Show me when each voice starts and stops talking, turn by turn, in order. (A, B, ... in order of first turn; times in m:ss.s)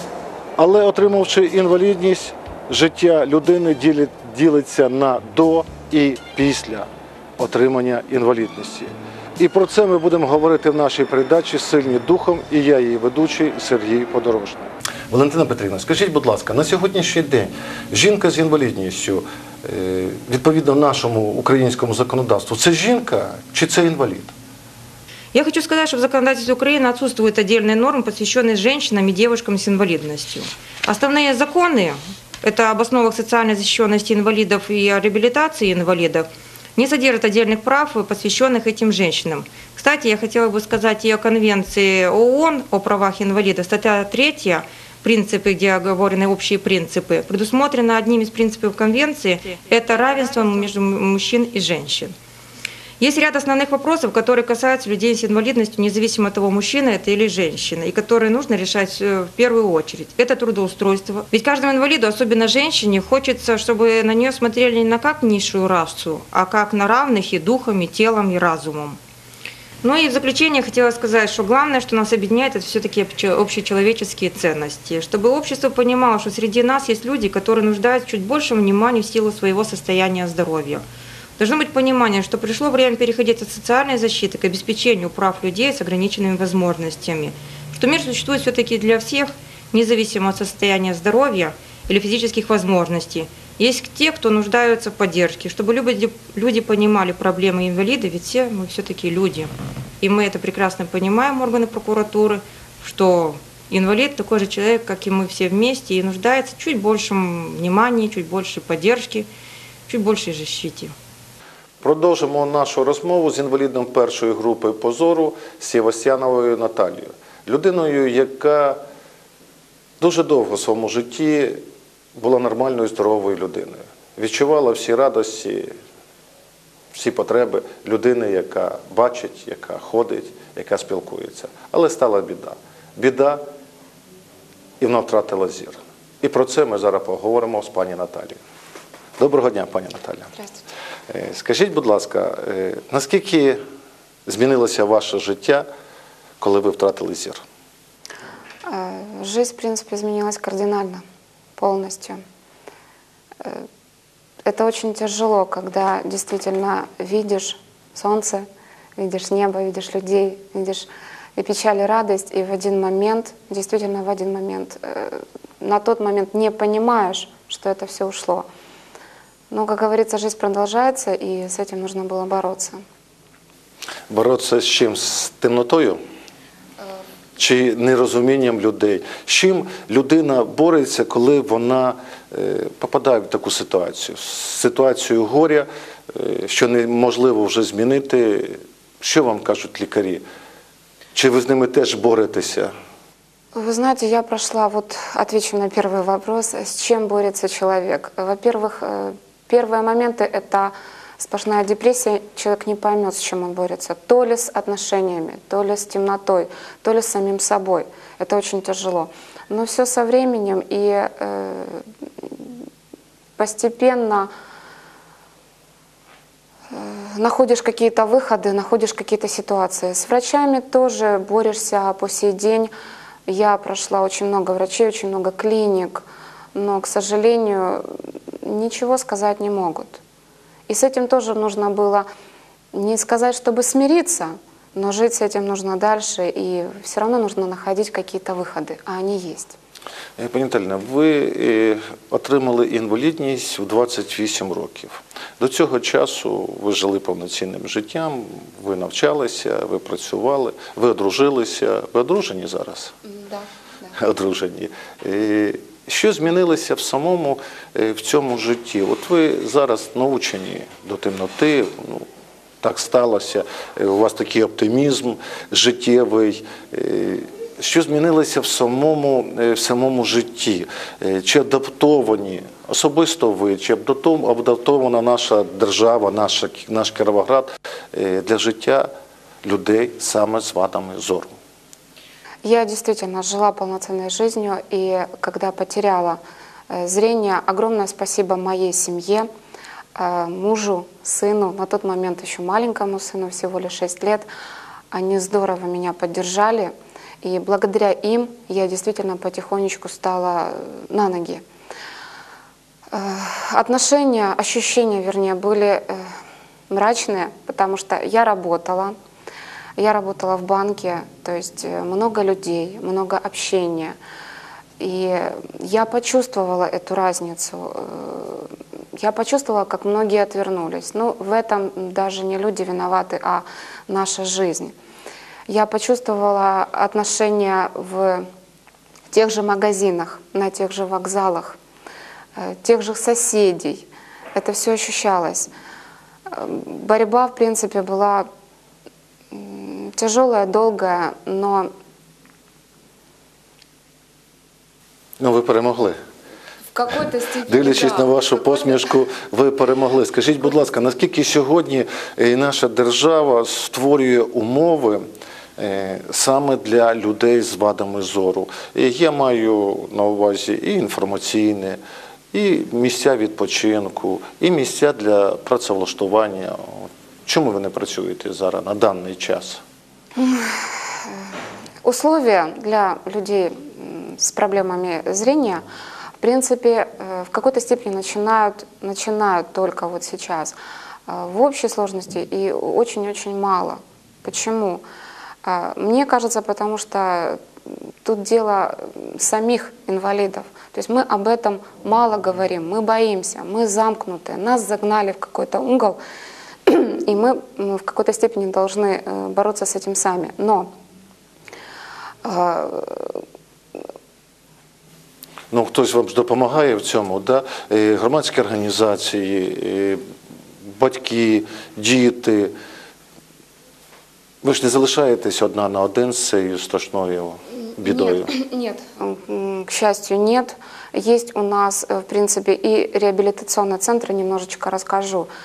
0:00.6-0:24.3 A
0:25.3-0:52.1 B
0:53.0-1:09.0 B
1:09.8-1:20.8 B
1:21.4-1:49.3 B
1:49.9-1:50.9 B
1:51.8-1:58.8 A
2:00.0-2:01.6 A
2:02.2-2:05.7 A
2:06.9-2:13.4 A
2:14.8-2:18.4 A
2:19.2-2:20.3 A
2:21.1-2:23.6 A
2:24.3-2:25.7 A
2:26.4-2:27.4 A
2:28.7-2:31.0 C
2:31.6-2:32.2 C
2:34.5-2:38.5 C
2:39.0-2:48.5 C
2:49.5-2:52.8 C
2:54.1-2:56.0 A
2:57.4-3:10.2 A
3:11.2-3:12.7 A
3:13.6-3:32.5 C
3:33.4-3:34.3 C
3:36.7-3:42.7 C
3:43.3-3:50.0 C
3:50.7-3:52.1 C
3:52.7-3:59.6 C
4:00.2-4:12.9 A
4:13.2-4:13.5 C
4:14.0-4:22.1 A
4:22.6-4:38.9 A
4:39.4-4:41.3 A
4:42.4-4:46.2 C
4:46.7-4:49.3 C
4:50.0-4:54.3 C
4:54.9-5:01.4 C
5:02.9-5:06.1 C
5:06.7-5:09.0 C
5:09.8-5:14.0 C
5:14.8-5:24.7 C
5:25.5-5:28.3 C
5:29.1-5:31.6 C
5:32.4-5:35.5 C
5:36.3-5:38.3 C
5:39.3-5:41.7 C
5:45.2-5:46.0 A
5:46.7-5:48.9 C
5:47.5-5:55.0 A
5:55.6-6:01.8 A
6:02.3-6:09.6 A
6:10.2-6:11.1 C
6:11.8-6:15.6 C
6:16.2-6:20.6 C
6:21.1-6:24.8 C
6:25.4-6:27.4 C
6:28.0-6:36.0 C
6:36.7-6:40.7 C
6:42.2-6:43.2 C
6:45.5-6:50.0 A
6:50.7-6:52.5 A
6:54.4-6:58.3 A
6:57.8-7:05.3 C